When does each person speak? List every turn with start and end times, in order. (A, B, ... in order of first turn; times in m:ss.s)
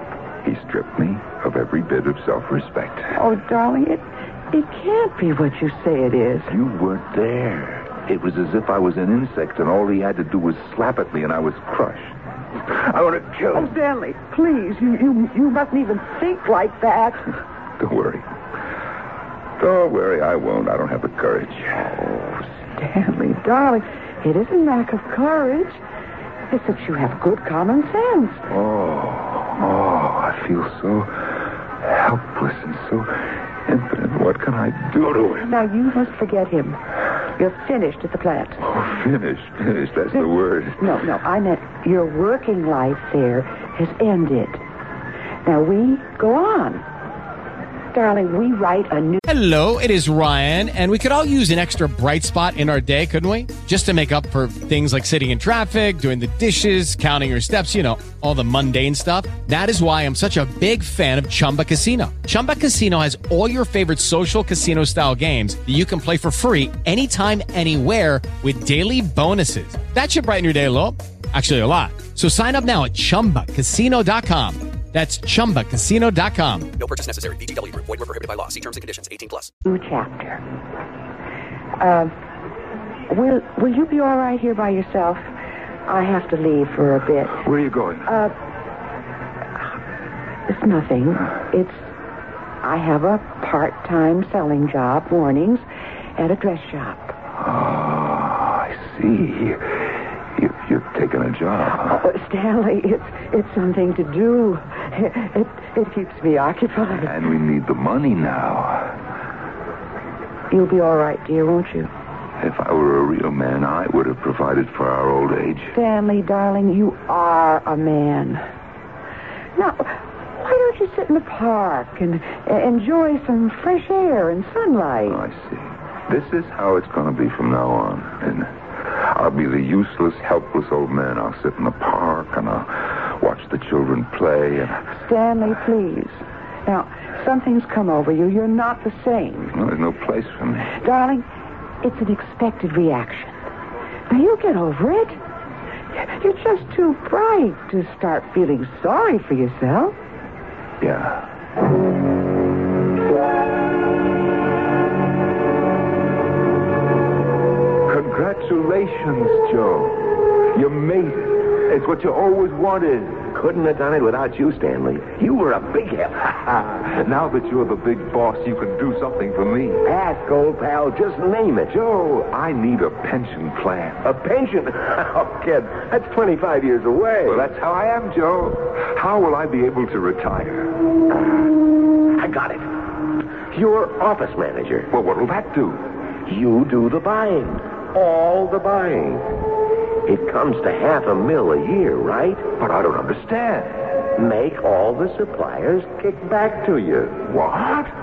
0:00.4-0:03.1 A
0:03.1-0:06.5 B
0:06.5-0:13.7 A
0:13.5-0:17.3 B
0:17.8-0:18.2 A
0:19.6-0:21.9 A
0:22.1-0:25.8 B
0:26.5-0:28.4 B
0:28.5-0:35.5 A
0:35.4-0:36.8 B
0:37.3-0:38.6 B
0:38.6-0:40.8 A
0:40.8-0:44.6 B
0:45.4-0:46.8 B
0:47.9-0:49.2 B
0:49.3-1:16.8 C
1:16.8-1:19.5 D
1:19.6-1:20.4 B
1:21.8-1:22.1 B
1:23.1-1:25.2 B
1:25.9-1:27.4 B
1:27.4-1:28.1 A
1:28.0-1:28.3 B
1:30.5-1:31.8 B
1:32.6-1:35.6 B
1:36.2-1:37.1 B
1:37.4-1:42.0 A
1:41.7-1:47.1 B
1:46.9-1:49.0 A
1:50.5-1:51.9 B
1:52.4-1:55.7 A
1:55.7-1:58.4 B
1:59.6-2:05.2 B
2:05.1-2:14.8 A
2:14.9-2:19.6 B
2:19.5-2:20.7 A
2:20.8-2:21.2 B
2:21.8-2:23.4 B
2:24.1-2:25.2 B
2:25.9-2:30.0 B
2:30.8-2:31.2 A
2:37.9-2:43.2 A
2:43.3-2:46.6 E
2:46.7-2:49.8 A
2:49.8-2:51.8 E
2:51.8-2:54.0 A
2:54.0-2:57.5 E
2:57.2-3:00.8 A
3:01.2-3:01.4 E
3:02.2-3:02.7 E
3:03.5-3:04.9 E
3:04.9-3:05.8 A
3:06.2-3:09.3 E
3:10.0-3:12.5 E
3:12.6-3:13.8 A
3:14.1-3:17.2 E
3:17.2-3:17.9 A